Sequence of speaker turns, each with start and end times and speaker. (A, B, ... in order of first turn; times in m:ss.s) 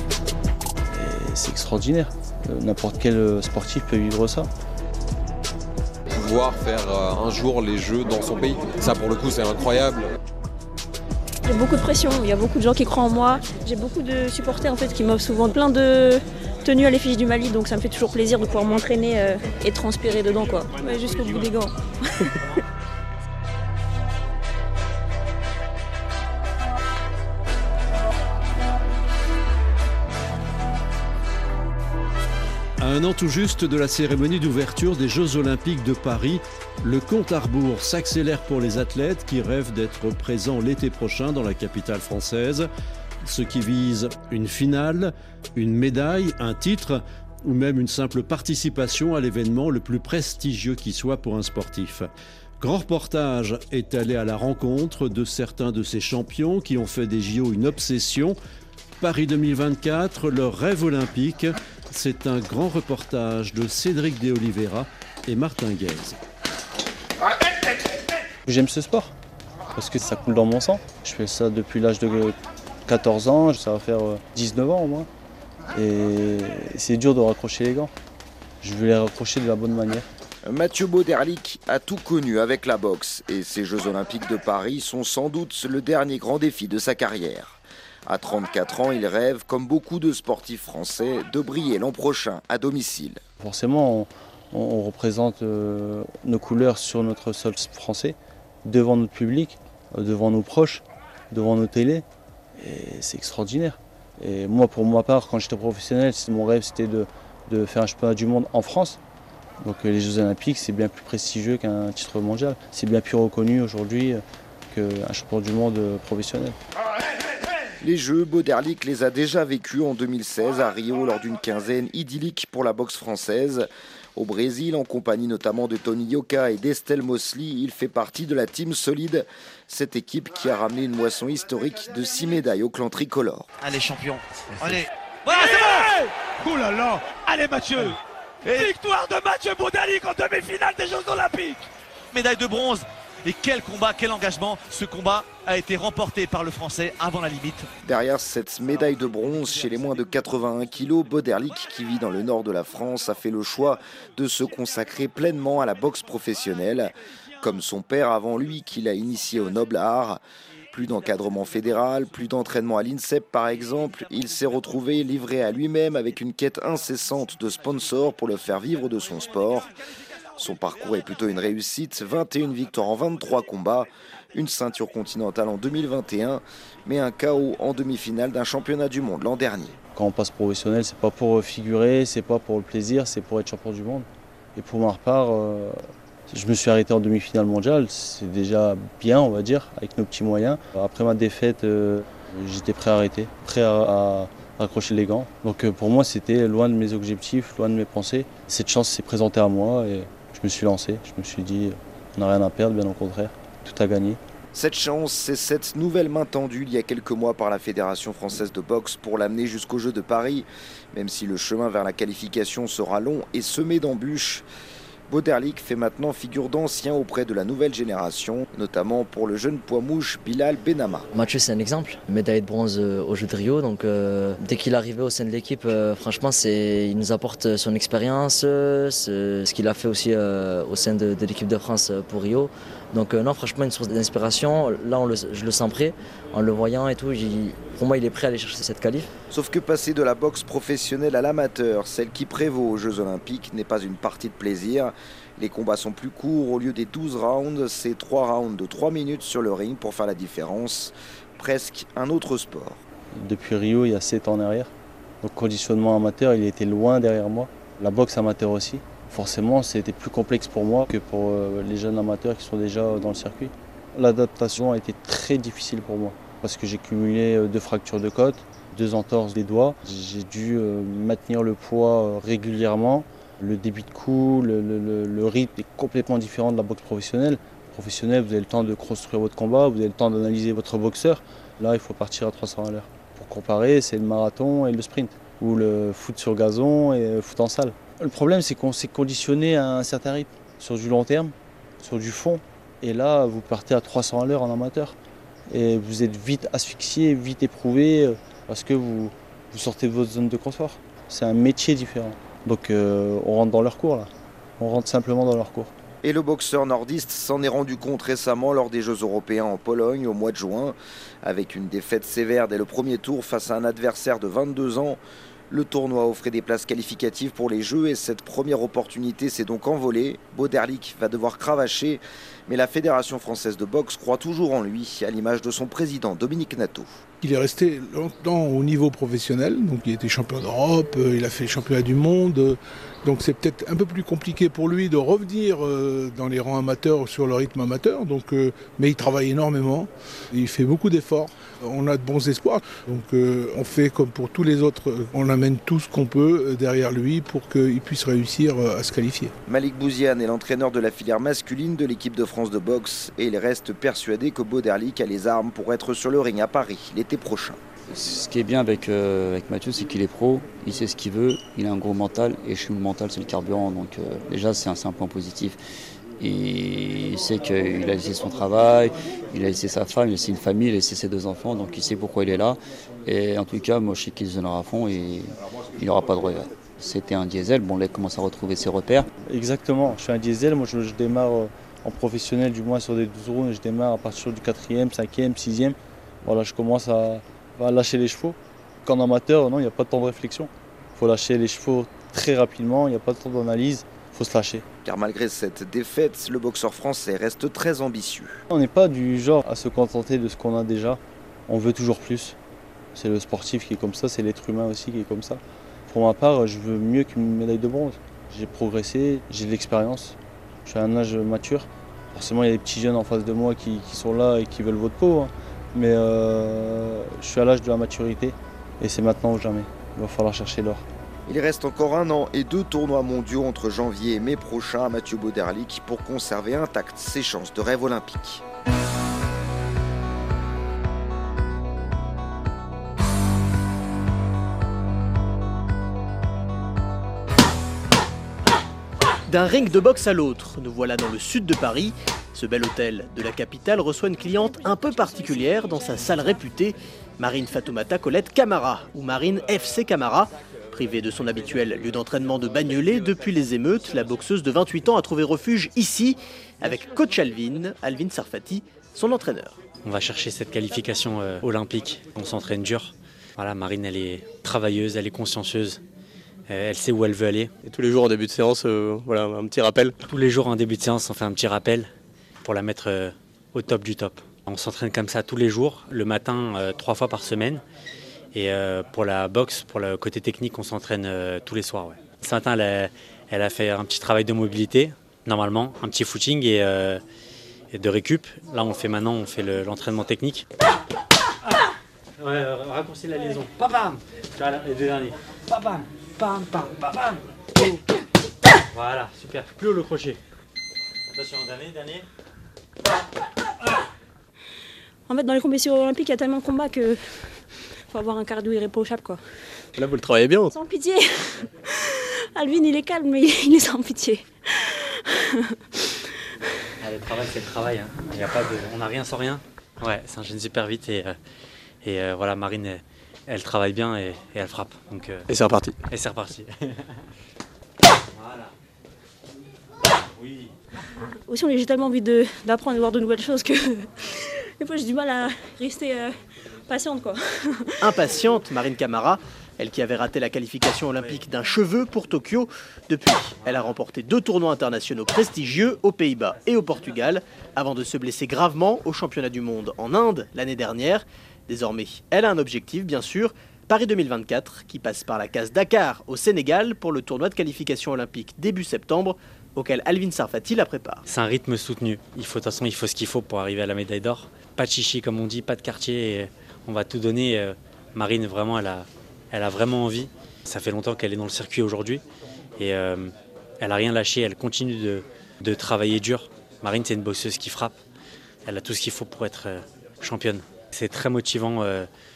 0:00.9-0:04.5 A
0:06.1-0:10.1 B
0:11.5-0:22.4 C
0:32.8-0:42.7 D
0:43.2-0:58.4 D
0:59.0-1:06.2 D
1:08.5-1:09.1 A
1:09.8-1:12.4 A
1:12.9-1:15.1 A
1:15.8-1:17.9 A
1:18.6-1:20.1 A
1:20.4-1:33.2 E
1:33.4-1:42.0 A
1:42.6-1:49.0 A
1:49.6-1:56.6 A
1:57.8-2:13.5 E
2:13.6-2:21.6 F
2:22.1-2:27.7 F
2:27.8-2:40.2 E
2:40.7-2:49.7 E
2:50.4-2:59.8 E
2:59.9-3:24.2 A
3:24.5-3:34.4 E
3:35.1-3:41.1 E
3:41.1-3:59.1 G
3:59.3-4:12.8 E
4:13.2-4:14.7 A
4:15.2-4:55.0 A
4:55.5-5:05.7 A
5:06.0-5:15.0 E
5:15.5-5:27.0 E
5:27.2-5:49.3 H
5:49.5-5:57.6 E
5:57.9-6:05.6 I
6:06.2-6:19.1 I
6:19.3-6:34.6 A
6:34.8-6:38.4 E
6:38.5-6:42.4 A
6:43.0-7:00.8 A
7:01.3-7:08.4 E
7:19.3-7:39.6 J
7:39.8-7:45.8 K
7:46.5-7:47.5 K
7:47.6-7:49.9 L
7:50.0-7:51.9 K
7:52.4-7:57.6 K
7:58.3-8:07.0 K
8:07.7-8:10.5 K
8:12.2-8:17.2 K
8:18.7-8:20.2 K
8:21.1-8:22.1 K
8:25.1-8:27.4 C
8:27.9-8:29.2 C
8:29.8-8:30.5 L
8:30.5-8:35.8 C
8:36.8-8:41.2 K
8:41.8-8:45.3 K
8:45.3-8:45.7 L
8:45.9-8:47.0 K
8:48.2-8:48.5 K
8:50.2-8:50.5 K
8:51.3-8:56.2 C
8:56.7-8:57.9 C
8:57.8-9:21.0 J
9:21.1-9:32.0 K
9:32.6-9:37.8 K
9:38.4-9:41.9 K